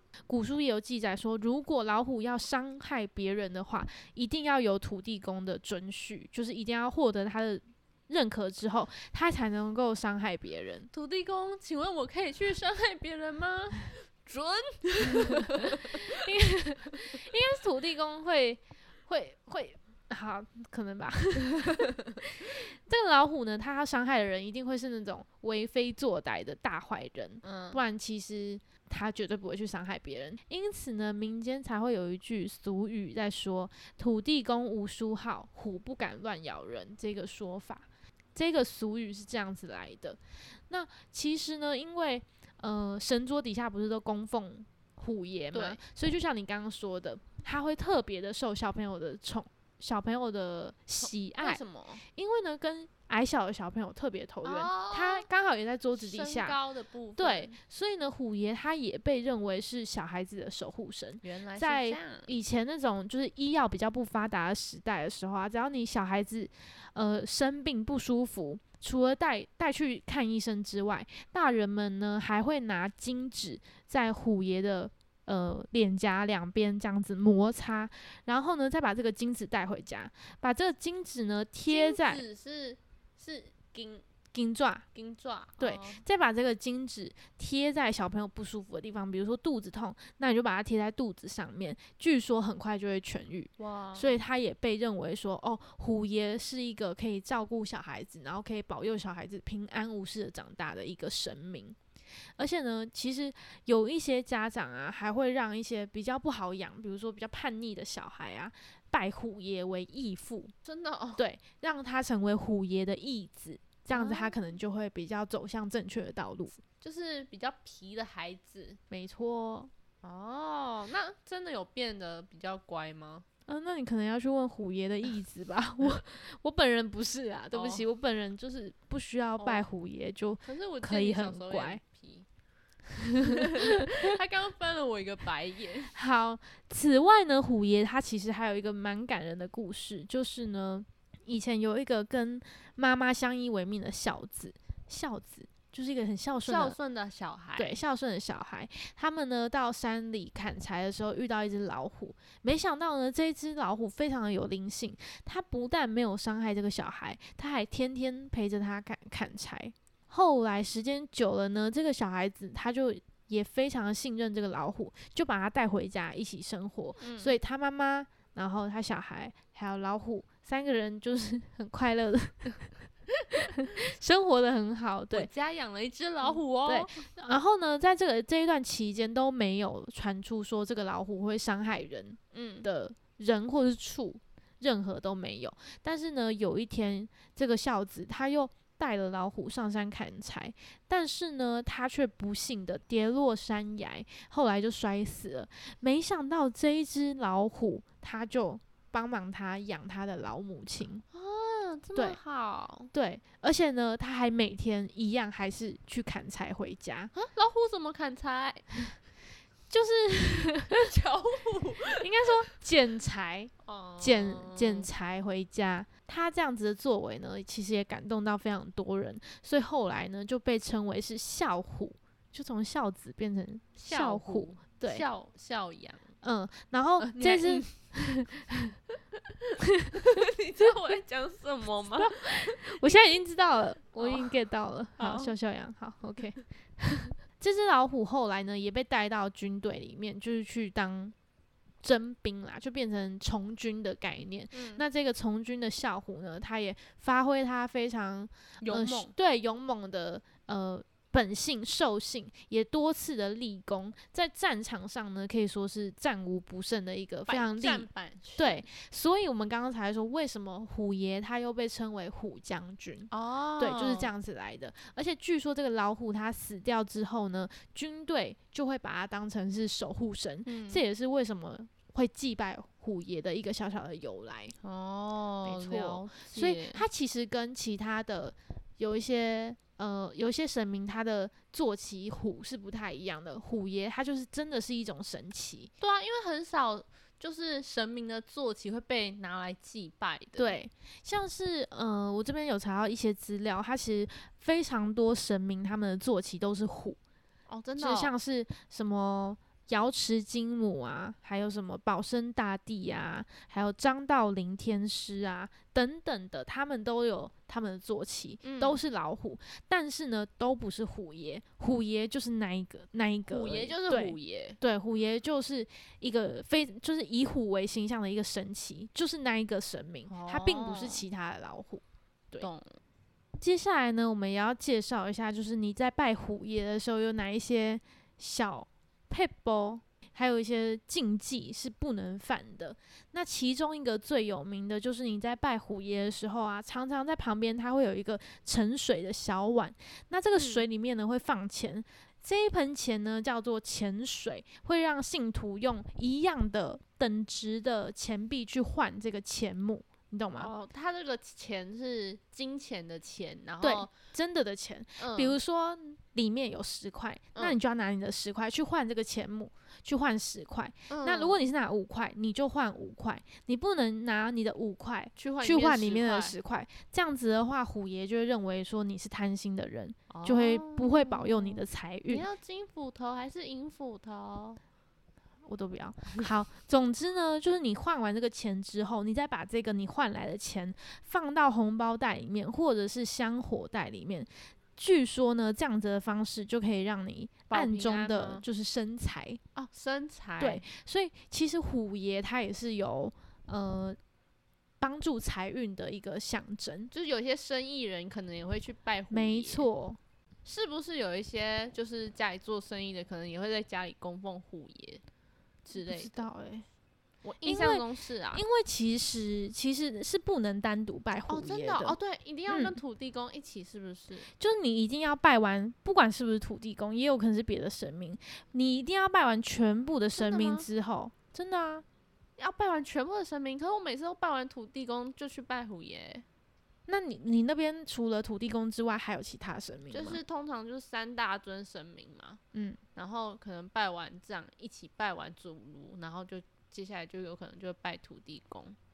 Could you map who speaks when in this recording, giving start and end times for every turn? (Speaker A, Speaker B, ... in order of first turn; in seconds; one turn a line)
Speaker A: 0.3-10.9
Speaker B: 10.9-16.2
Speaker A: 15.9-56.6
Speaker B: 27.4-27.8
Speaker B: 45.5-45.8
Speaker B: 51.0-52.0
Speaker B: 54.4-55.2
Speaker B: 55.9-57.6
Speaker A: 57.2-82.2
Speaker B: 61.2-62.3
Speaker B: 81.7-84.0
Speaker A: 84.3-84.8
Speaker B: 84.9-86.0
Speaker A: 85.6-101.8
Speaker B: 93.6-94.1
Speaker A: 102.4-110.5
Speaker B: 110.6-111.2
Speaker A: 111.2-116.6
Speaker B: 113.9-114.4
Speaker B: 116.8-118.8
Speaker A: 118.9-119.7
Speaker B: 120.0-123.2
Speaker A: 123.5-131.8
Speaker B: 127.5-127.8
Speaker B: 129.4-129.6
Speaker B: 130.4-132.2
Speaker A: 133.0-133.8
Speaker B: 133.2-135.9
Speaker A: 135.9-146.8
Speaker B: 146.4-147.8
Speaker A: 147.6-172.6
Speaker B: 167.0-167.3
Speaker A: 173.6-175.3
Speaker B: 175.1-177.1
Speaker A: 176.2-201.0
Speaker B: 182.3-182.7
Speaker B: 201.1-202.9
Speaker A: 202.9-207.1
Speaker B: 207.1-208.7
Speaker A: 209.7-210.8
Speaker B: 210.7-212.3
Speaker A: 212.0-225.1
Speaker B: 213.6-214.9
Speaker B: 223.8-226.1
Speaker A: 226.2-228.6
Speaker B: 227.0-227.9
Speaker A: 229.8-230.2
Speaker B: 229.9-233.1
Speaker A: 232.0-241.1
Speaker B: 234.0-234.3
Speaker B: 235.0-235.3
Speaker A: 241.8-274.5
Speaker B: 244.5-244.8
Speaker B: 248.6-249.1
Speaker B: 257.3-258.6
Speaker B: 263.1-264.1
Speaker B: 270.4-270.8
Speaker B: 274.6-276.9
Speaker A: 275.4-285.7
Speaker B: 285.8-290.6
Speaker A: 290.4-297.0
Speaker B: 297.5-298.1
Speaker A: 297.8-322.5
Speaker B: 308.4-308.8
Speaker B: 313.3-314.6
Speaker B: 320.1-321.1
Speaker B: 322.4-322.8
Speaker A: 323.4-350.5
Speaker B: 340.3-340.6
Speaker B: 350.4-353.9
Speaker A: 353.6-372.2
Speaker B: 355.0-355.4
Speaker B: 360.9-361.4
Speaker B: 365.1-366.4
Speaker B: 370.1-374.6
Speaker A: 375.4-389.4
Speaker B: 387.5-388.4
Speaker B: 389.5-390.6
Speaker A: 390.4-394.0
Speaker A: 394.8-396.9
Speaker B: 396.9-399.7
Speaker A: 399.1-400.0
Speaker B: 400.4-405.0
Speaker B: 405.6-406.1
Speaker A: 405.8-406.6
Speaker B: 407.2-408.4
Speaker A: 407.4-412.0
Speaker B: 411.3-414.3
Speaker A: 412.5-412.8
Speaker A: 414.4-421.8
Speaker B: 420.2-420.7
Speaker B: 422.4-426.2
Speaker A: 426.9-430.2
Speaker B: 429.9-432.4
Speaker A: 432.5-432.8
Speaker B: 432.9-438.8